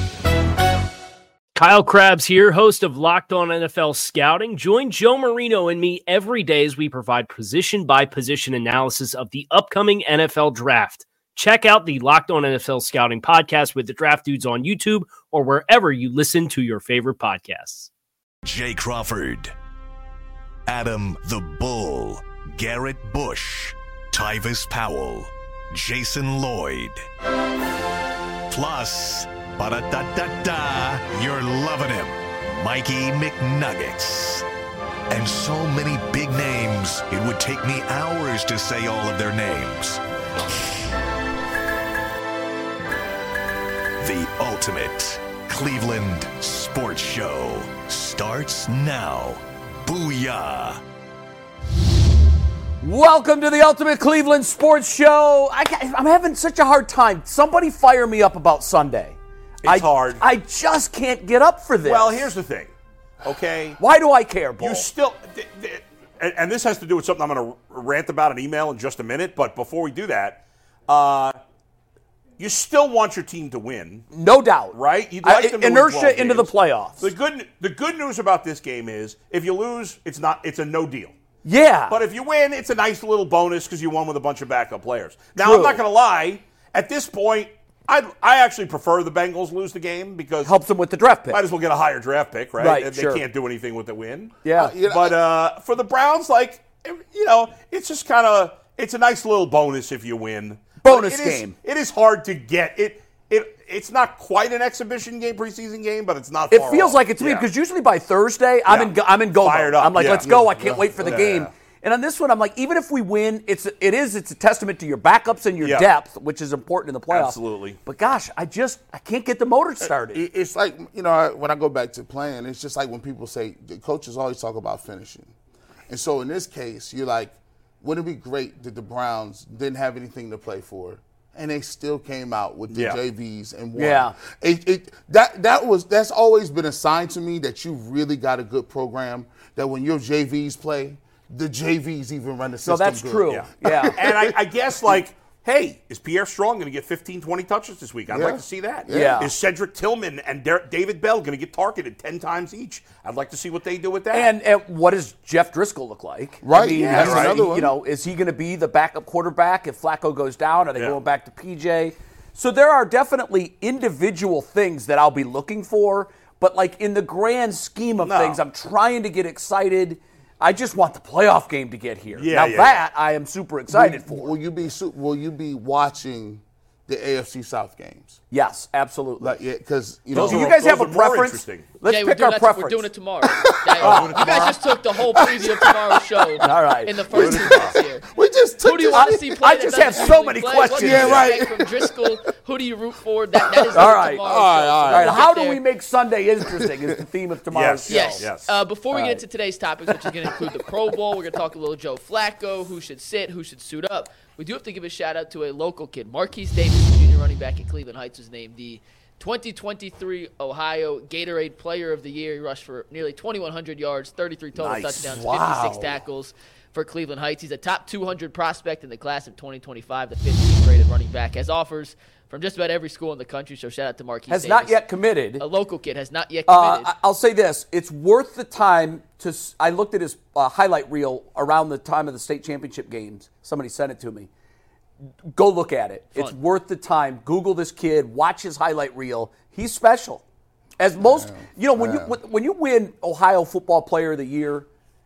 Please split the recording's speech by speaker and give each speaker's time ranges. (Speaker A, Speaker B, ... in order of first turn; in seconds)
Speaker A: 1.5-17.9
Speaker B: 18.4-19.5, 20.7-27.1, 28.5-34.4, 35.1-40.0, 44.0-50.8
Speaker C: 52.8-62.3, 63.8-64.9, 74.1-77.1, 81.4-82.0, 85.4-85.8, 90.4-91.4, 92.6-93.2, 94.4-94.8, 100.8-101.5, 106.5-120.2, 133.7-134.1, 142.6-144.0, 148.9-149.3, 154.1-174.3, 178.3-179.3, 180.1-182.9, 183.8-184.4, 186.4-186.9, 188.9-191.3, 193.7-194.2, 194.9-198.3, 198.9-199.2, 214.7-215.8, 224.3-225.4, 226.5-234.3, 235.3-240.2, 240.8-244.7
Speaker D: 59.6-60.2, 61.8-62.7, 63.2-63.8, 64.6-71.4, 72.4-74.1, 74.7-81.1, 81.9-90.6, 91.3-107.5, 108.7-110.3, 111.0-111.5, 115.6-115.9, 117.1-117.8, 132.7-133.0, 143.3-154.3, 156.7-157.4, 168.0-168.4, 172.1-172.8, 180.1-181.7, 183.8-184.6, 187.1-187.7, 190.9-191.3, 197.5-198.5, 214.6-215.0
Speaker E: 94.5-95.2, 110.2-111.2, 119.8-125.3, 125.9-144.4, 148.1-149.3, 156.4-157.7, 173.7-178.2, 179.2-180.5, 183.3-183.8, 184.3-186.4, 187.1-189.5, 190.7-192.1, 193.3-195.2, 196.4-196.9, 241.0-242.2
Speaker F: 181.8-188.0, 188.6-195.6, 197.9-224.8, 225.4-226.9